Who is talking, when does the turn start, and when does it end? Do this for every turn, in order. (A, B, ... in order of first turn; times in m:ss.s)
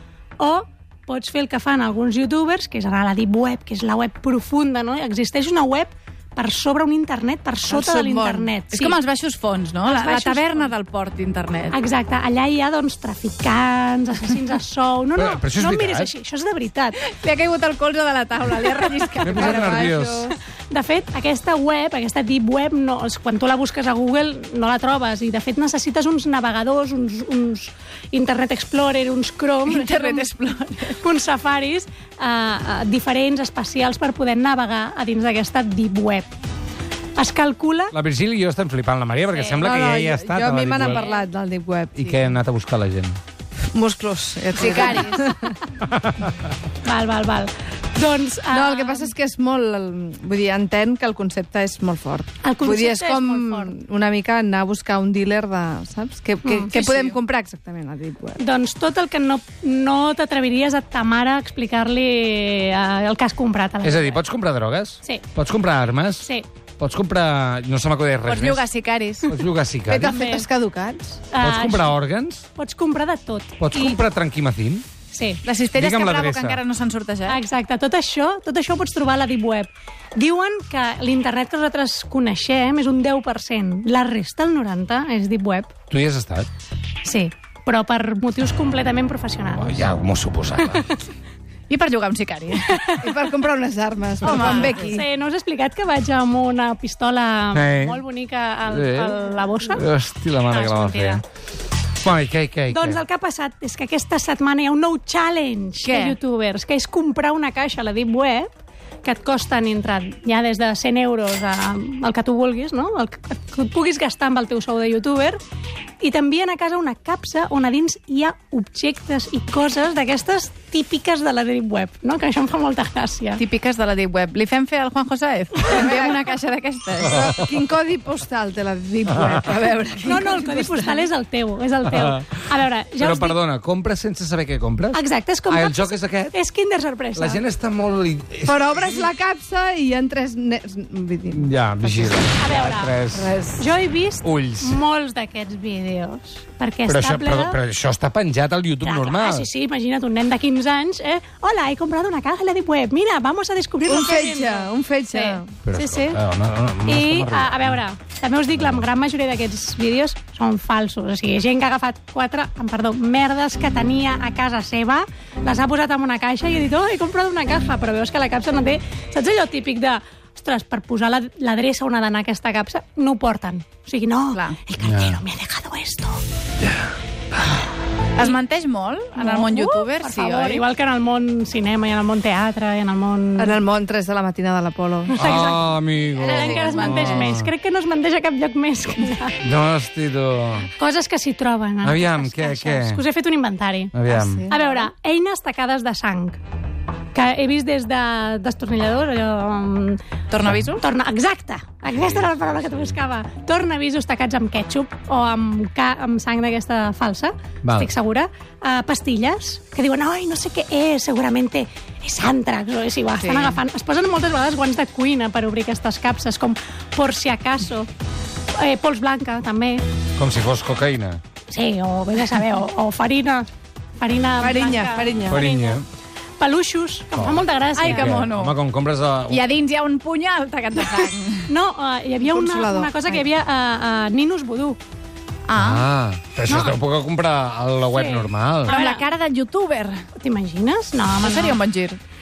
0:00.4-0:09.0 A
0:07.7-0:11.7 B
0:09.8-0:10.7 A
0:11.7-0:17.0 A
0:15.2-0:16.1 C
0:17.0-0:19.9 B
0:19.2-0:20.3 D
0:19.2-0:20.3 C
0:20.7-0:30.3 A
0:29.6-0:31.0 B
0:31.0-0:36.3 A
0:37.2-0:37.9 A
0:37.9-0:41.1 C
0:39.3-0:39.7 A
0:39.6-0:42.4 D
0:40.8-0:41.2 A
0:42.0-0:43.2 C
0:43.7-0:45.6 D
0:44.5-0:45.3 B
0:45.8-0:46.3 C
0:46.8-0:49.1 A
0:48.5-0:58.4 D
0:52.4-0:53.7 A
0:56.4-0:56.7 A
0:56.7-0:57.2 B
0:58.4-1:04.2 A
1:03.8-1:08.6 C
1:08.2-1:09.3 B
1:09.2-1:10.2 C
1:09.9-1:11.2 D
1:10.0-1:10.5 A
1:11.3-1:12.0 A
1:11.4-1:12.4 C
1:12.6-1:14.0 A
1:13.6-1:14.8 C
1:15.1-1:15.4 A
1:15.4-1:17.4 B
1:15.7-1:16.6 C
1:17.3-1:25.7 A
1:25.9-1:26.5 C
1:27.0-1:29.9 A
1:29.6-1:30.9 C
1:30.6-1:31.0 A
1:31.7-1:32.9 B
1:32.7-1:33.1 A
1:33.0-1:35.0 D
1:34.2-1:35.0 B
1:34.2-1:39.8 A
1:37.5-1:38.0 C
1:38.7-1:41.2 C
1:40.5-1:41.2 B
1:42.0-1:43.0 C
1:42.7-1:55.4 A
1:45.8-1:46.2 B
1:56.0-2:03.4 A
2:03.4-2:07.2 B
2:05.7-2:06.2 D
2:07.1-2:11.0 D
2:10.0-2:13.4 A
2:11.9-2:12.4 C
2:13.0-2:16.3 C
2:14.9-2:17.4 A
2:17.2-2:19.0 C
2:18.4-2:22.2 D
2:21.3-2:23.3 C
2:22.4-2:23.0 A
2:23.1-2:23.7 D
2:23.6-2:27.6 A
2:24.2-2:24.8 C
2:26.9-2:29.5 C
2:28.8-2:36.2 A
2:33.9-2:35.5 D
2:35.6-2:37.8 C
2:36.8-2:56.2 A
2:54.8-2:55.2 C
2:56.6-2:56.9 C
2:58.1-3:00.6 B
2:59.1-3:03.6 A
3:03.4-3:05.2 D
3:05.1-3:09.4 A
3:05.2-3:07.5 C
3:06.2-3:07.4 B
3:09.4-3:10.7 C
3:10.8-3:13.9 A
3:11.8-3:13.0 C
3:13.9-3:14.4 C
3:14.1-3:14.8 D
3:14.4-3:16.4 A
3:17.1-3:20.0 A
3:20.3-3:20.8 B
3:20.7-3:37.9 A
3:21.9-3:23.0 C
3:27.6-3:27.9 C
3:33.1-3:33.6 B
3:38.5-3:39.8 A
3:40.2-3:41.2 C
3:41.5-3:43.5 A
3:44.0-3:45.8 A
3:44.4-3:45.4 D
3:45.3-3:45.8 C
3:46.4-3:48.2 A
3:47.1-3:49.4 C
3:47.7-3:48.6 B
3:49.3-3:51.5 B
3:51.5-3:54.8 A
3:52.2-3:53.2 D
3:55.5-3:55.9 B
3:55.5-3:58.8 C
3:56.5-3:56.8 A
3:57.9-3:59.0 A
3:58.6-4:00.1 B
4:00.1-4:01.6 A
4:01.2-4:02.0 B